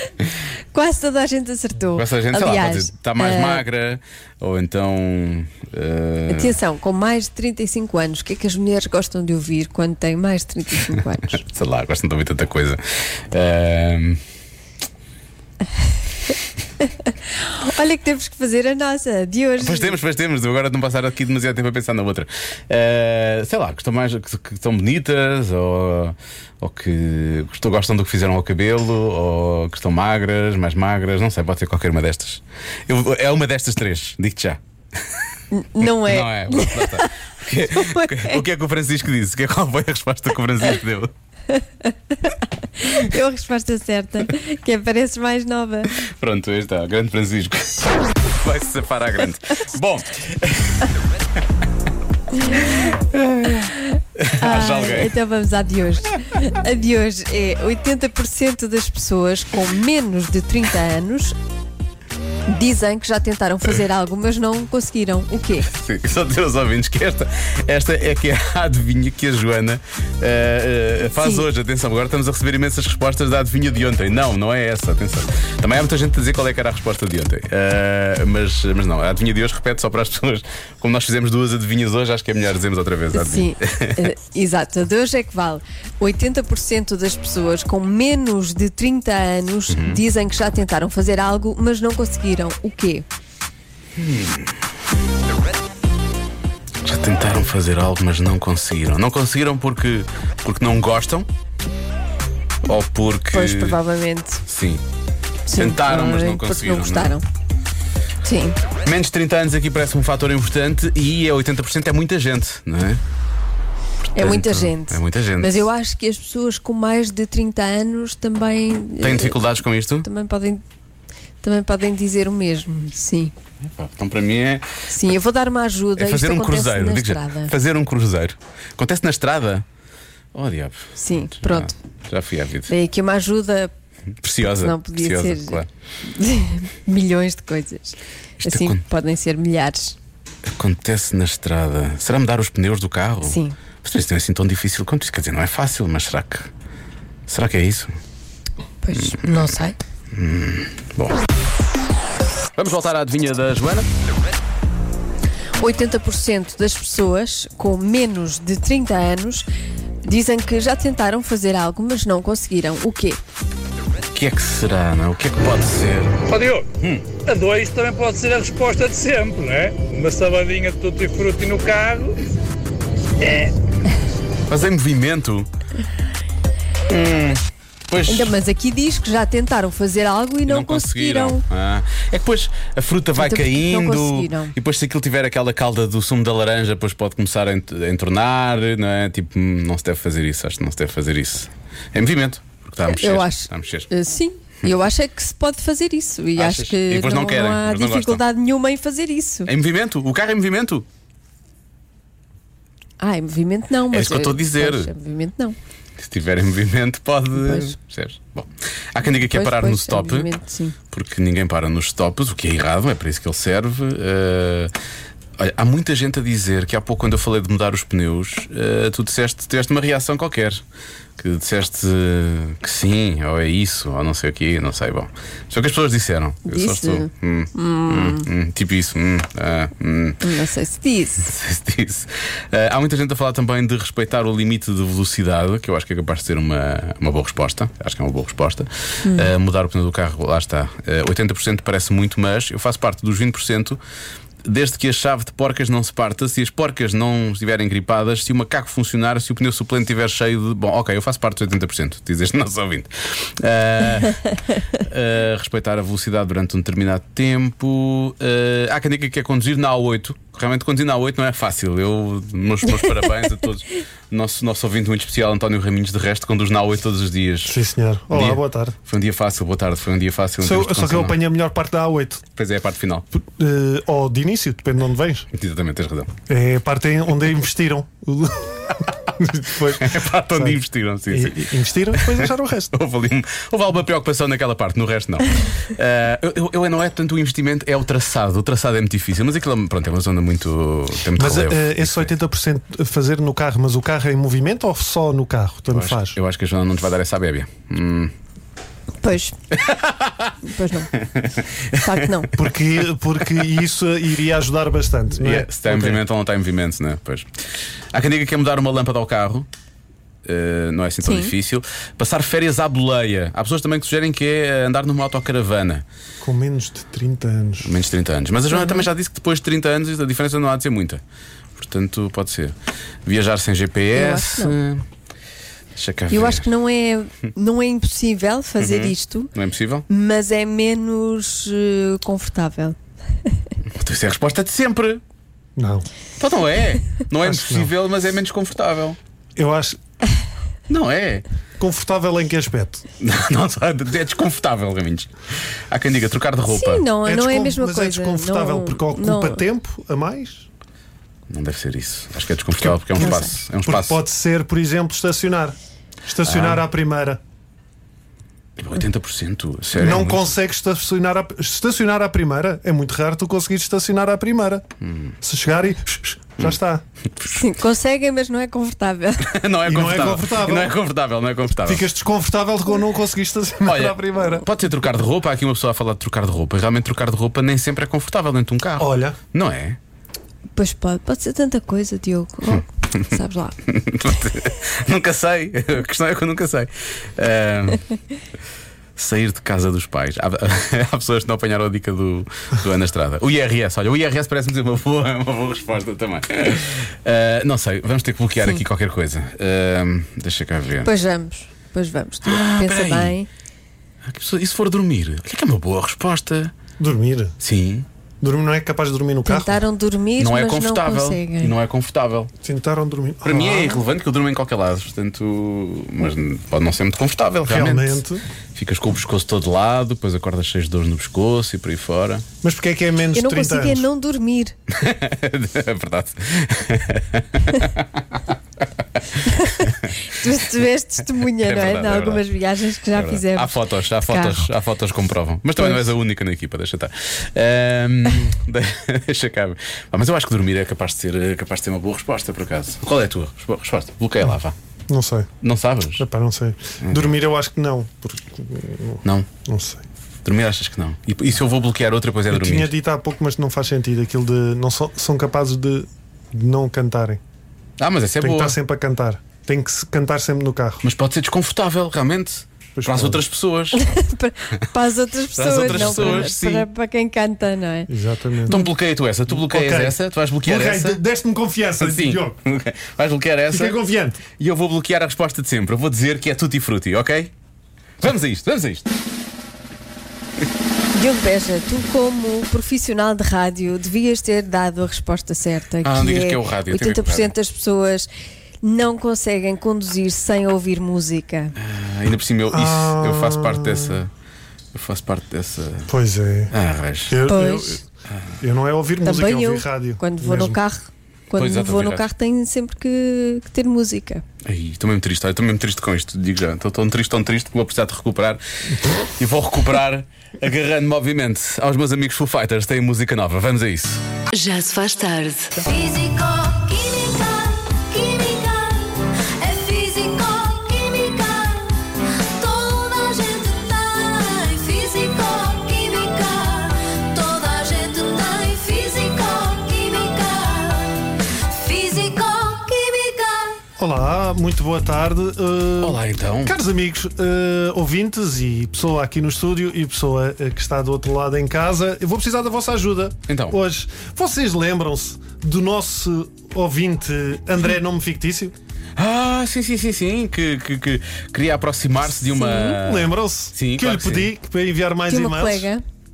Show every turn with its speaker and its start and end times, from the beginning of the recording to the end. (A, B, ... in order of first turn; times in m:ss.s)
0:00.7-0:03.6 A
0:02.0-0:06.6 B
0:06.3-0:11.4 A
0:11.4-0:14.2 B
0:16.8-0:20.0 A
0:19.6-0:34.6 B
0:35.5-0:37.1 A
0:35.8-0:41.1 B
0:37.7-0:38.4 A
0:41.5-0:45.9 A
0:46.0-0:50.9 B
0:52.5-0:55.1 B
0:53.6-1:01.4 A
1:02.5-1:05.7 A
1:05.7-1:24.0 B
1:11.1-1:11.4 A
1:23.1-1:33.0 A
1:29.7-1:30.0 B
1:34.0-1:34.5 B
1:36.8-1:41.3 B
1:42.6-1:43.8 B
1:43.3-1:44.4 A
1:44.4-1:44.8 B
1:45.5-1:47.2 A
1:45.5-1:47.2 B
1:48.2-1:48.6 A
1:48.8-1:53.0 B
1:54.1-1:55.7 B
1:54.2-1:59.4 A
1:59.0-2:00.0 B
2:00.0-2:00.6 A
2:01.4-2:03.3 A
2:03.6-2:04.7 B
2:04.9-2:07.5 A
2:06.0-2:09.6 B
2:10.3-2:12.7 B
2:11.0-2:11.8 A
2:12.7-2:13.7 A
2:14.2-2:15.7 B
2:14.4-2:20.0 A
2:18.4-2:18.8 B
2:20.5-2:26.5 B
2:23.2-2:23.6 A
2:27.3-2:27.9 B
2:28.8-2:29.8 A
2:29.0-2:29.3 B
2:30.1-2:31.2 B
2:32.6-2:33.9 B
2:35.6-2:39.5 A
2:40.0-2:43.2 A
2:44.1-2:46.2 B
2:46.3-2:46.7 C
2:46.8-2:47.0 B
2:47.2-2:52.2 C
2:53.2-2:53.5 C
2:54.5-2:55.5 B
2:56.9-2:58.3 B
2:58.0-3:01.4 A
3:00.4-3:13.9 B
3:03.2-3:04.5 A
3:12.8-3:19.5 A
3:16.4-3:18.2 B
3:19.5-3:20.8 B
3:23.0-3:25.6 A
3:23.9-3:24.9 B
3:26.0-3:30.3 B
3:27.3-3:27.8 A
3:29.3-3:30.8 A
3:30.9-3:34.7 B
3:35.4-3:40.6 B
3:41.2-3:50.2 B
3:46.5-3:48.3 A
3:50.2-3:51.3 A
3:51.2-4:03.8 B
3:59.0-3:59.3 A
4:04.4-4:27.6 B
4:27.4-4:28.8 D
4:28.1-4:31.2 B
4:30.4-4:32.2 D
4:32.4-4:33.0 B
4:33.1-4:35.3 D
4:35.3-4:36.1 B
4:36.3-4:42.7 D
4:39.8-4:52.1 B
4:51.2-4:56.2 D
4:55.7-4:58.1 B
4:59.0-4:59.4 A
4:59.6-5:00.3 B
5:00.4-5:00.9 A
5:01.0-5:01.9 B
5:01.8-5:02.3 A
5:02.4-5:06.0 D
5:05.2-5:07.3 B
5:07.9-5:09.5 B
5:10.2-5:15.8 B
5:11.0-5:11.3 A
5:16.2-5:17.7 D
5:17.6-5:21.0 B
5:18.5-5:18.9 A
5:21.6-5:24.8 B
5:23.9-5:24.6 A
5:25.8-5:26.4 B
5:26.1-5:29.3 A
5:28.6-5:29.8 B
5:29.9-5:32.8 A
5:33.7-5:35.0 B
5:35.6-5:35.9 D
5:36.2-5:39.0 B
5:37.2-5:37.7 D
5:39.4-5:39.8 D
5:40.7-5:41.2 B
5:41.6-5:42.8 D
5:43.0-5:45.1 B
5:45.7-5:46.8 B
5:46.5-5:49.4 A
5:47.0-5:50.5 D
5:51.3-5:54.0 B
5:52.7-5:57.2 D
5:53.0-5:53.3 A
5:56.2-5:56.6 B
5:58.6-6:00.3 B
5:59.7-6:04.6 D
6:04.8-6:05.1 B
6:05.2-6:06.8 D
6:07.3-6:09.4 A
6:09.2-6:11.8 B
6:09.6-6:10.7 D
6:11.6-6:14.5 D
6:13.6-6:19.8 B
6:18.8-6:19.2 D
6:20.5-6:23.6 A
6:23.7-6:27.8 B
6:29.0-6:40.9 B
6:40.8-6:43.3 A
6:42.2-6:43.2 B
6:44.0-6:46.5 B
6:46.8-6:47.3 D
6:47.4-6:47.9 B
6:48.2-6:49.6 D
6:49.2-6:51.5 A
6:50.2-6:52.3 B
6:52.4-6:53.8 D
6:53.2-6:58.0 B
6:57.4-6:58.2 D
6:58.5-7:02.2 B
7:02.4-7:03.8 D
7:03.1-7:04.5 A
7:04.7-7:08.2 B
7:09.2-7:14.5 A
7:09.4-7:09.9 B
7:11.4-7:12.2 B
7:12.9-7:24.5 B
7:15.6-7:15.8 A
7:24.9-7:25.3 D
7:25.4-7:26.0 B
7:26.0-7:29.8 D
7:26.8-7:27.1 B
7:30.2-7:32.7 B
7:32.3-7:37.2 D
7:37.8-7:38.6 B
7:38.2-7:40.8 D
7:40.8-7:43.8 B
7:42.8-7:43.2 D
7:43.7-7:47.9 A
7:45.4-7:46.7 B
7:45.7-7:46.3 D
7:47.9-7:48.6 D
7:48.5-7:51.0 B
7:49.3-7:52.4 D
7:51.8-7:53.8 B
7:53.5-7:54.2 D
7:54.4-7:57.3 B
7:58.0-7:58.9 B
8:00.9-8:08.1 A
8:05.8-8:07.3 B
8:08.6-8:11.5 A
8:11.6-8:14.1 B
8:12.5-8:14.0 D
8:14.7-8:15.9 B
8:15.9-8:16.5 D
8:16.5-8:17.2 B
8:17.1-8:17.8 D
8:17.3-8:17.8 A
8:18.4-8:20.6 D
8:19.0-8:24.2 A
8:21.4-8:22.0 B
8:24.4-8:34.0 B
8:34.3-8:53.6 E
8:53.8-9:08.5 D
8:55.8-8:56.6 B
9:03.3-9:03.6 B
9:09.0-9:14.3 B
9:12.6-9:15.7 D
9:15.1-9:15.8 A